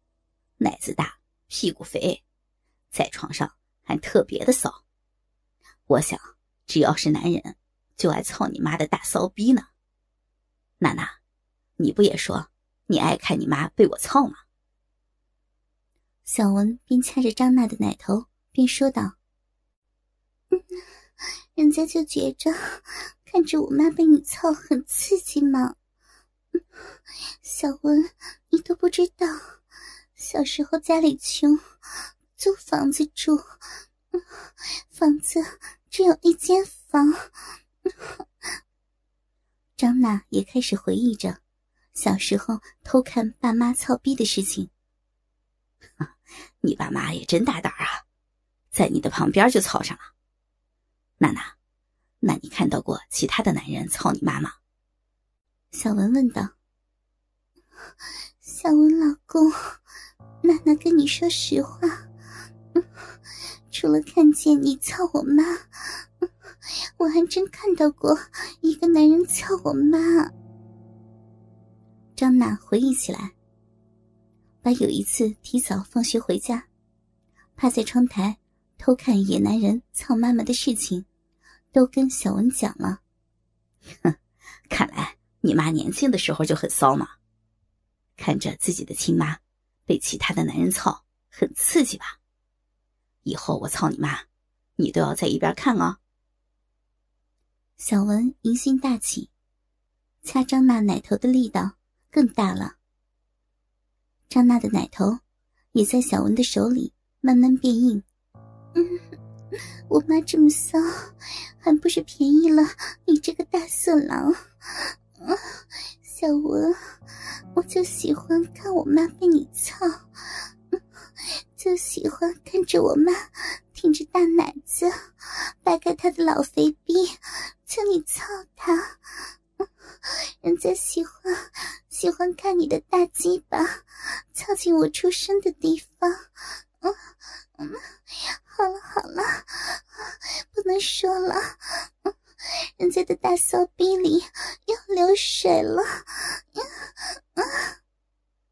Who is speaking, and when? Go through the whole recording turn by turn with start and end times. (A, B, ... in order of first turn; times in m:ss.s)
0:00.6-0:02.2 A
0:02.9-0:04.8 A
0:05.9-0:09.7 A
0:10.8-0:11.2 A
0:11.8-0:14.4 A
0:16.2-0:19.2 B
0:21.6-0:25.8 B
0:27.4-0:29.4 B
0:30.2-0:31.6 B
0:32.4-0:33.4 B
0:34.9-0:37.3 B
0:39.8-0:41.4 B
0:42.0-0:44.7 B
0:46.6-0:48.0 A
0:48.7-0:50.1 A
0:51.2-0:51.5 A
0:52.2-0:54.6 A
0:55.7-0:56.5 B
0:58.4-0:59.8 B
1:00.4-1:02.0 B
1:03.7-1:06.0 B
1:07.0-1:10.3 B
1:12.2-1:13.3 B
1:14.6-1:16.7 B
1:17.6-1:21.1 B
1:21.7-1:23.0 B
1:24.7-1:27.1 A
1:28.2-1:32.2 A
1:33.2-1:34.2 A
1:34.8-1:36.0 A
1:37.8-1:39.3 B
1:40.2-1:42.8 B
1:44.3-1:45.2 B
1:45.7-1:48.0 B
1:48.8-1:49.0 B
1:49.9-1:56.8 B
1:57.6-2:00.0 B
2:01.6-2:09.3 B
2:09.9-2:16.3 B
2:17.6-2:22.1 B
2:22.8-2:27.7 B